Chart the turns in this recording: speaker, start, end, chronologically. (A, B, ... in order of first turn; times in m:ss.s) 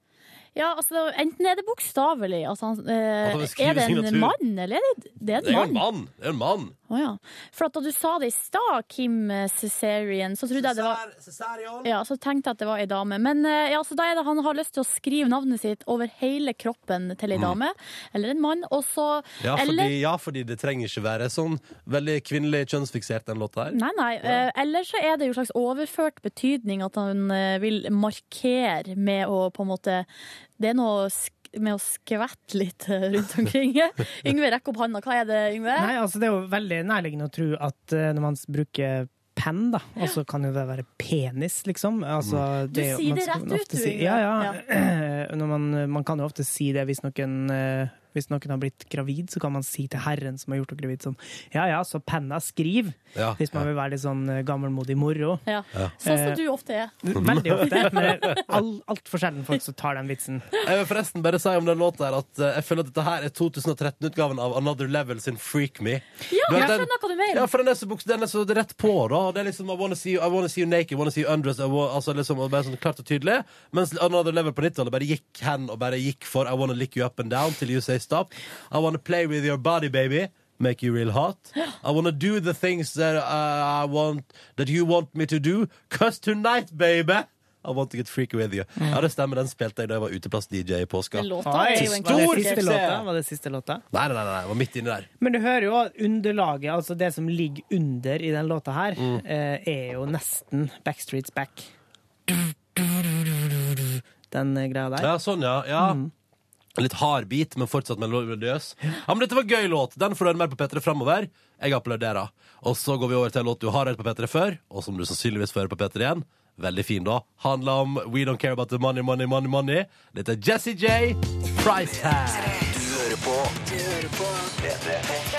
0:00.6-0:05.8 A
0:03.2-0:04.4 B
0:05.4-0:06.7 B
0:06.9-0:11.0 A
0:10.6-0:11.9 B
0:11.8-0:20.0 A
0:19.4-0:24.4 B
0:23.7-0:30.1 A
0:30.6-0:35.9 A
0:35.8-0:55.4 C
0:42.7-0:44.6 A
0:53.2-0:53.7 B
0:55.4-0:57.0 A
0:56.0-0:56.4 C
0:57.0-1:00.6 C
0:57.1-0:58.2 B
0:57.6-0:58.4 A
1:00.6-1:33.1 B
1:06.3-1:07.5 A
1:31.1-1:32.6 A
1:31.4-1:33.8 C
1:33.9-1:35.1 B
1:35.2-1:41.7 C
1:42.3-1:45.1 C
1:45.0-1:46.0 B
1:45.8-1:46.1 C
1:46.8-2:04.1 B